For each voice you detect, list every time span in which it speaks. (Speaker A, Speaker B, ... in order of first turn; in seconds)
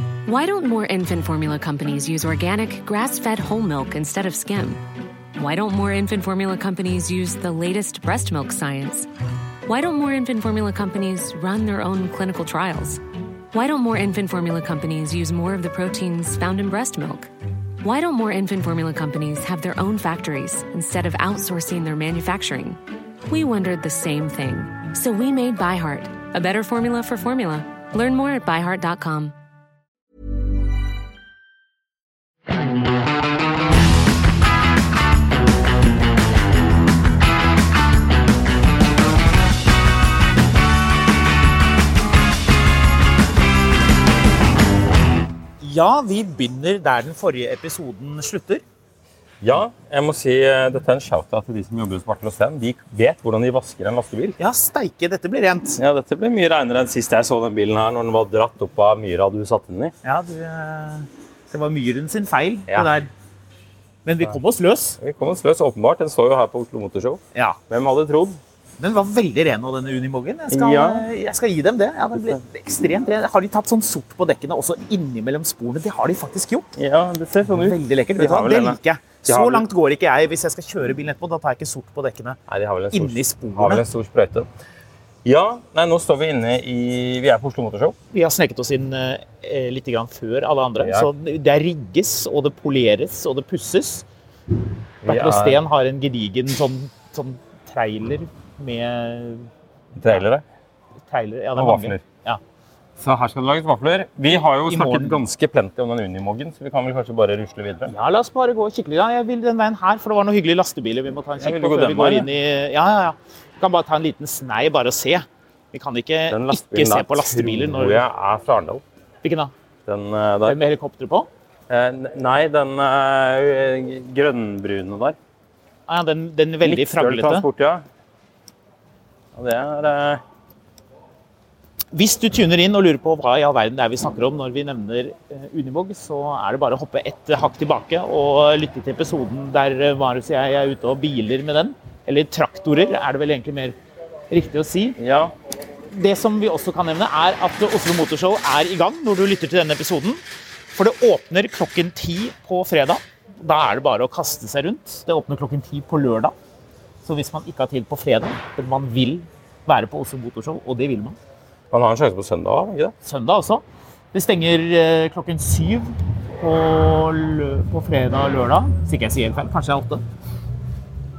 Speaker A: 0.2-4.8, 5.3-9.1, 9.7-13.0, 13.5-17.3, 17.8-29.3
Speaker B: 45.6-48.6, 54.4-55.8, 60.0-63.1, 64.0-65.0, 67.3-67.6, 68.8-76.7, 77.5-82.4, 82.9-83.8, 88.1-94.0, 95.0-99.5, 101.1-102.4, 104.6-105.2, 107.9-118.0, 119.2-119.5, 120.4-121.3, 125.9-127.5, 131.9-143.8, 144.3-145.0, 145.9-150.2, 150.7-156.3, 157.0-161.2, 163.0-170.0
Speaker C: 49.4-54.4, 55.8-59.9, 65.0-68.4, 70.5-71.1, 72.1-72.4, 76.7-79.6, 82.5-84.5, 85.2-88.0, 90.8-91.1, 95.0-95.6, 100.0-100.4, 101.5-102.0, 103.0-107.9, 111.4-112.3, 116.3-118.8, 119.8-120.6, 121.7-125.2, 126.6-127.8, 129.3-130.2, 145.0-145.3, 161.7-162.9